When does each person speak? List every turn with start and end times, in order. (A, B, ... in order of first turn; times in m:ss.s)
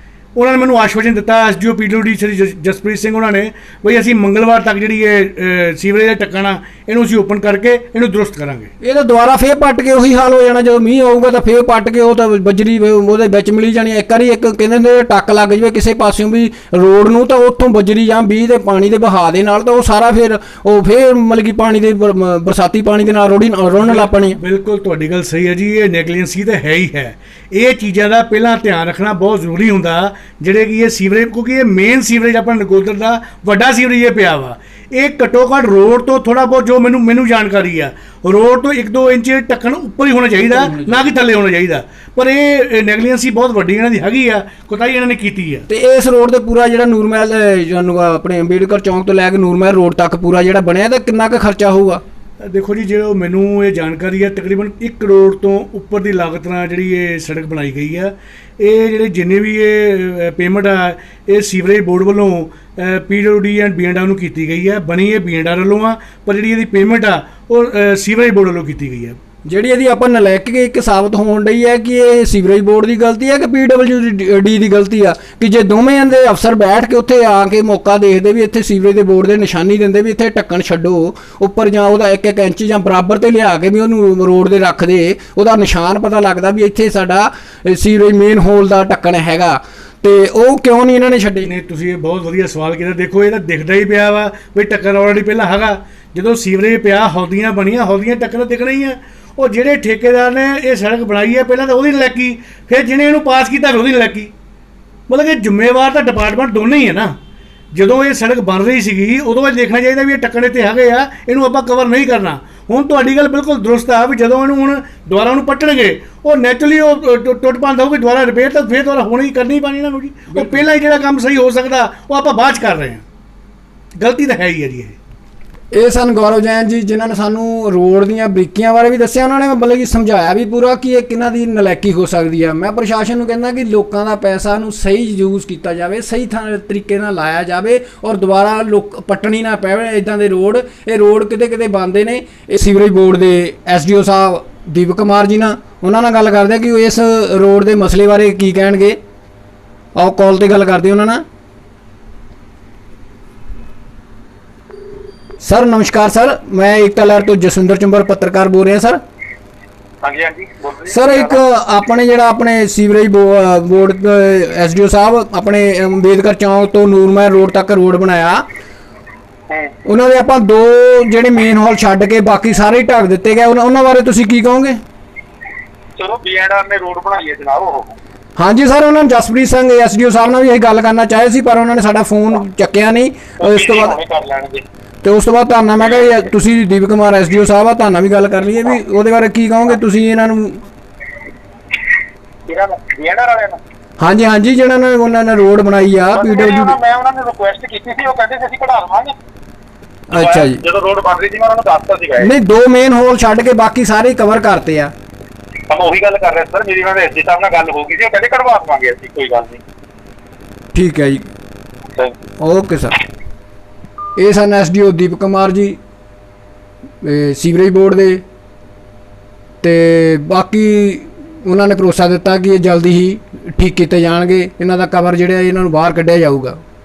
0:00.3-0:08.7 A
0:08.8-0:24.4 B
0:23.8-0:45.6 A
0:40.5-0:41.1 B
0:45.7-0:52.0 B
0:52.4-1:09.2 A
1:09.5-1:31.5 B
1:31.4-1:44.3 A
1:45.1-1:47.2 A
1:47.7-2:03.0 A
2:00.3-2:00.6 B
2:04.0-2:05.0 A
2:05.7-2:29.0 B
2:30.0-2:31.2 B
2:35.4-2:39.0 B
2:40.0-2:41.4 C
2:40.9-2:48.4 B
2:49.5-2:49.7 C
2:49.8-2:54.8 B
2:56.0-2:57.9 C
2:58.4-3:04.0 B
3:03.4-3:04.6 C
3:05.0-3:10.6 B
3:12.5-3:13.6 C
3:14.0-3:16.8 B
3:16.1-3:19.1 C
3:20.1-3:20.6 B
3:20.1-3:22.3 C
3:22.2-3:24.9 B
3:25.7-3:29.6 C
3:30.7-3:31.2 B
3:32.4-3:33.0 B
3:34.2-3:35.8 B
3:37.0-3:38.2 B
3:39.6-3:46.6 B